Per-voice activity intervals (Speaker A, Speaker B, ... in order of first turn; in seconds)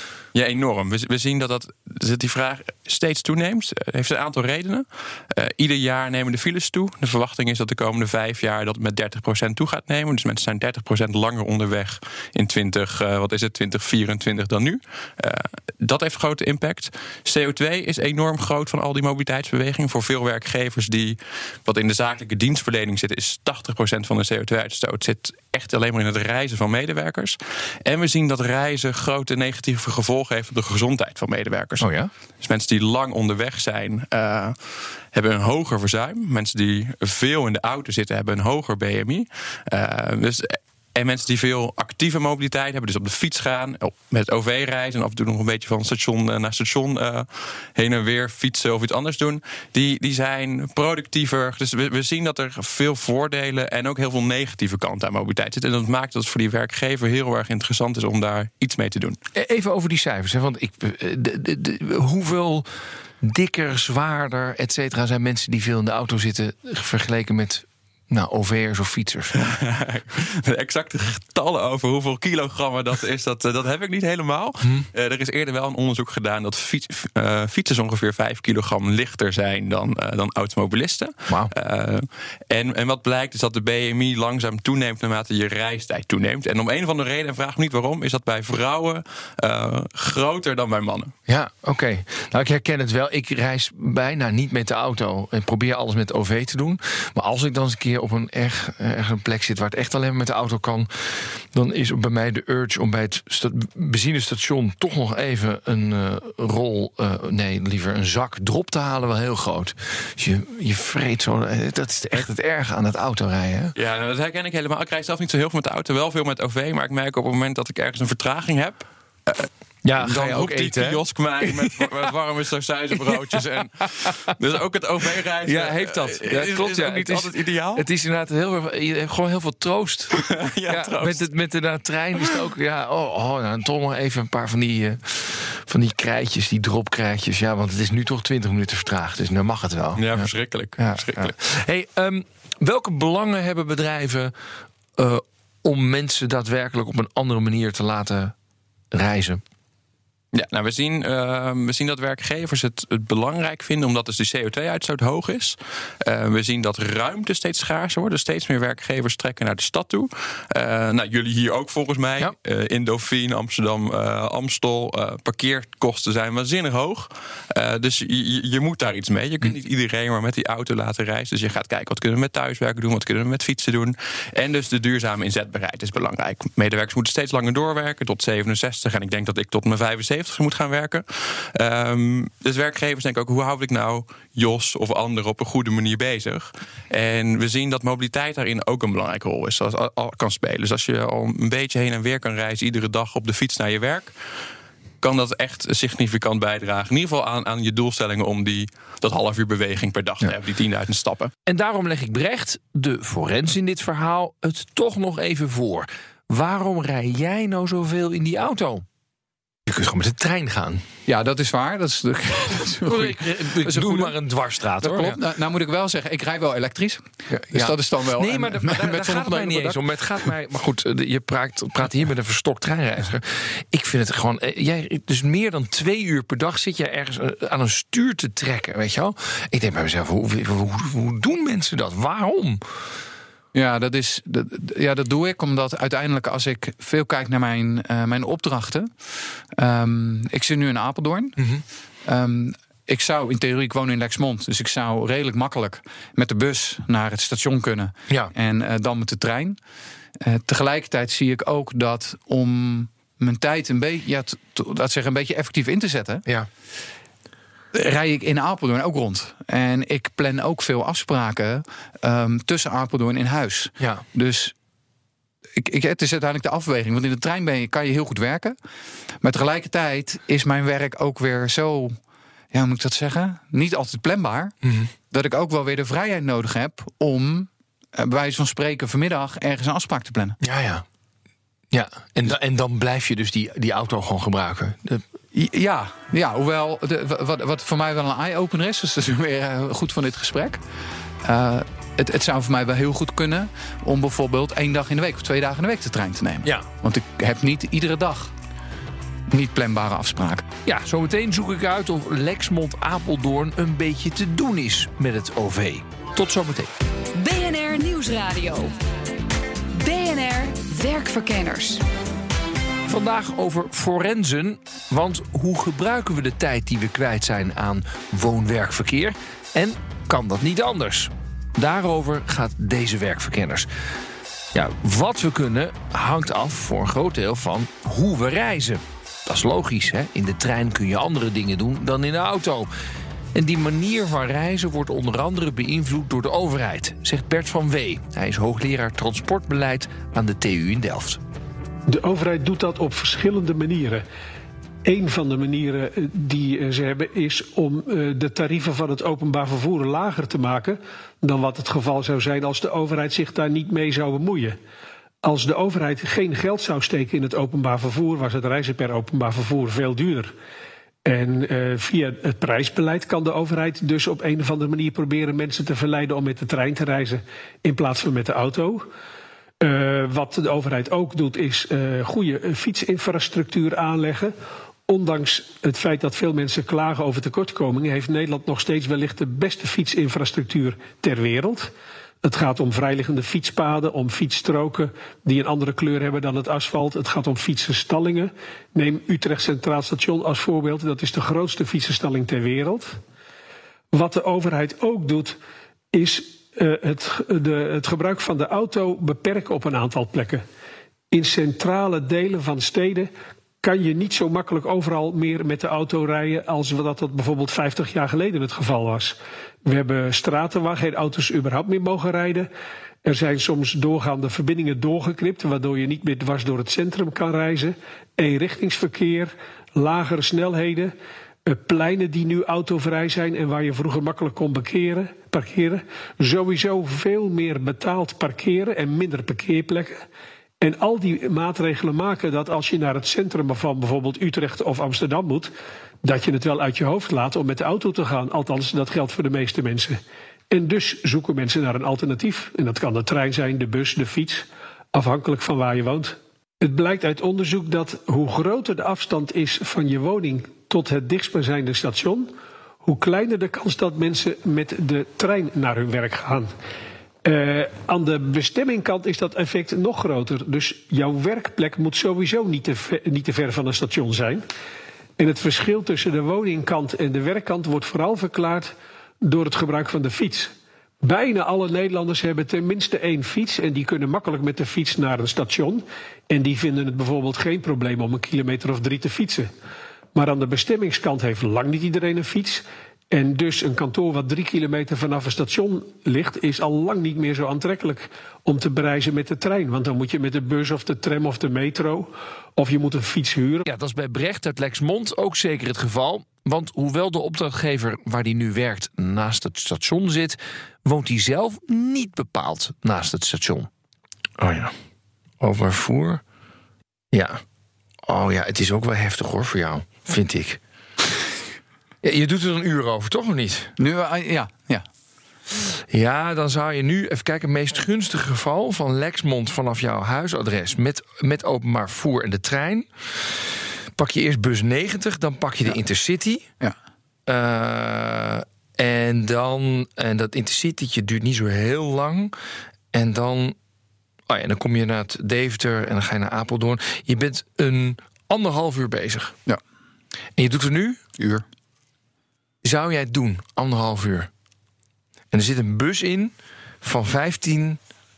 Speaker A: 0.3-59.2, 69.3-91.1, 113.8-127.8, 130.2-131.2, 140.0-141.3, 150.3-194.1, 195.0-201.3
Speaker B: 31.8-32.1, 59.4-69.3, 74.6-74.9, 81.3-81.5, 91.3-113.8, 119.8-121.9, 123.1-124.1, 125.4-144.3, 144.9-148.3, 148.9-149.4, 201.4-208.8, 209.7-210.8, 212.8-215.2, 217.3-232.6, 241.4-241.6, 263.8-264.0, 274.6-274.9, 280.4-280.8, 281.7-285.0, 300.6-306.7, 312.9-323.7, 324.5-332.7, 333.3-341.2, 493.6-503.7, 504.4-504.7, 505.4-506.2, 507.1-507.4, 508.1-510.6, 512.0-513.7, 515.9-526.5, 527.3-532.3, 532.9-533.6, 534.3-539.4, 540.4-541.0, 542.6-544.3, 545.3-547.8
Speaker C: 211.1-214.2, 214.8-219.8, 233.5-238.9, 239.5-241.4, 242.1-249.6, 250.2-256.2, 257.7-264.5, 265.6-268.6, 269.2-272.0, 272.5-274.6, 275.1-280.4, 285.3-290.6, 291.2-298.3, 299.3-300.4, 513.8-514.9, 541.2-541.4
Speaker D: 307.1-308.7, 309.7-311.8
Speaker E: 341.9-344.1, 344.8-354.6, 355.2-360.3, 361.1-368.9, 369.6-374.3, 374.9-381.7, 382.2-393.0, 393.9-395.4, 395.9-400.4, 401.1-403.1, 403.6-412.5, 413.0-420.9, 421.4-430.1, 430.6-435.5, 436.0-440.0, 440.5-452.3, 452.8-456.5, 457.2-464.4, 465.2-479.5, 480.1-493.6